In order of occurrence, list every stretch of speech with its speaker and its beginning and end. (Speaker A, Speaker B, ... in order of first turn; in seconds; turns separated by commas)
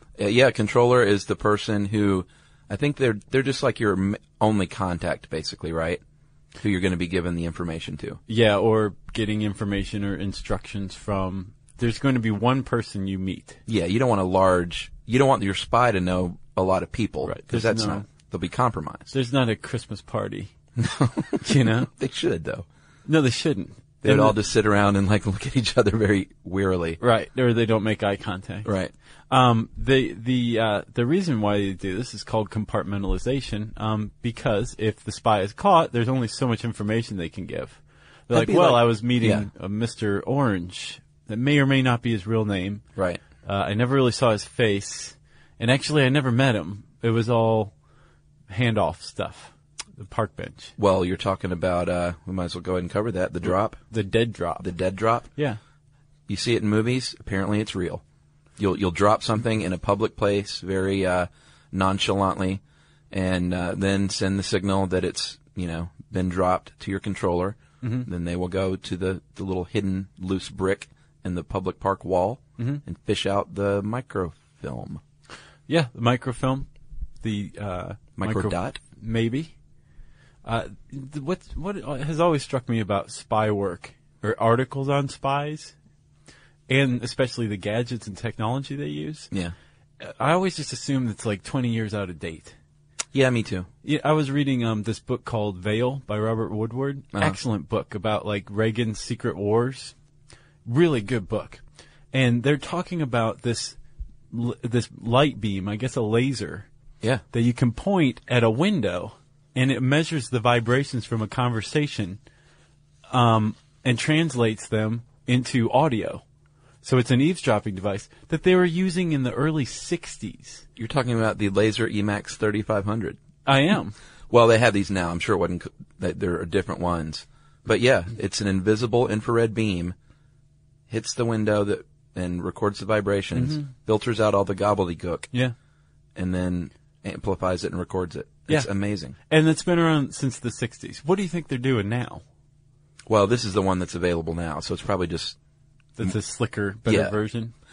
Speaker A: 0.2-6.0, Speaker A: 6.6-8.2, Speaker B: 8.3-13.6, Speaker A: 13.7-19.1, Speaker B: 17.2-18.0, Speaker B: 19.1-20.5, Speaker B: 21.4-21.9, Speaker A: 22.0-22.6, Speaker B: 23.1-24.4, Speaker A: 24.0-27.0, Speaker B: 27.0-28.7, Speaker A: 28.6-28.9, Speaker B: 29.3-42.8, Speaker A: 38.3-39.5, Speaker B: 43.4-47.7, Speaker B: 48.5-50.7, Speaker A: 50.8-53.7, Speaker B: 53.5-54.6, Speaker A: 54.6-55.2, Speaker A: 56.3-58.0, Speaker A: 58.6-62.6, Speaker A: 63.1-75.0, Speaker B: 67.8-68.1, Speaker B: 75.7-76.7, Speaker B: 77.2-79.5, Speaker A: 78.2-78.8, Speaker B: 80.5-85.7, Speaker B: 86.7-89.3, Speaker B: 90.0-92.5, Speaker A: 93.1-93.7, Speaker B: 93.8-99.9, Speaker B: 100.7-101.6, Speaker B: 102.1-103.8, Speaker B: 104.3-106.7, Speaker B: 107.3-112.2, Speaker B: 113.1-116.2, Speaker B: 116.8-120.6, Speaker A: 120.8-123.2, Speaker B: 123.5-124.0, Speaker A: 124.3-129.9, Speaker A: 130.9-135.3, Speaker B: 133.3-133.7, Speaker A: 136.2-139.1, Speaker B: 139.3-142.2, Speaker A: 143.1-145.4, Speaker B: 146.0-147.5, Speaker A: 146.9-147.1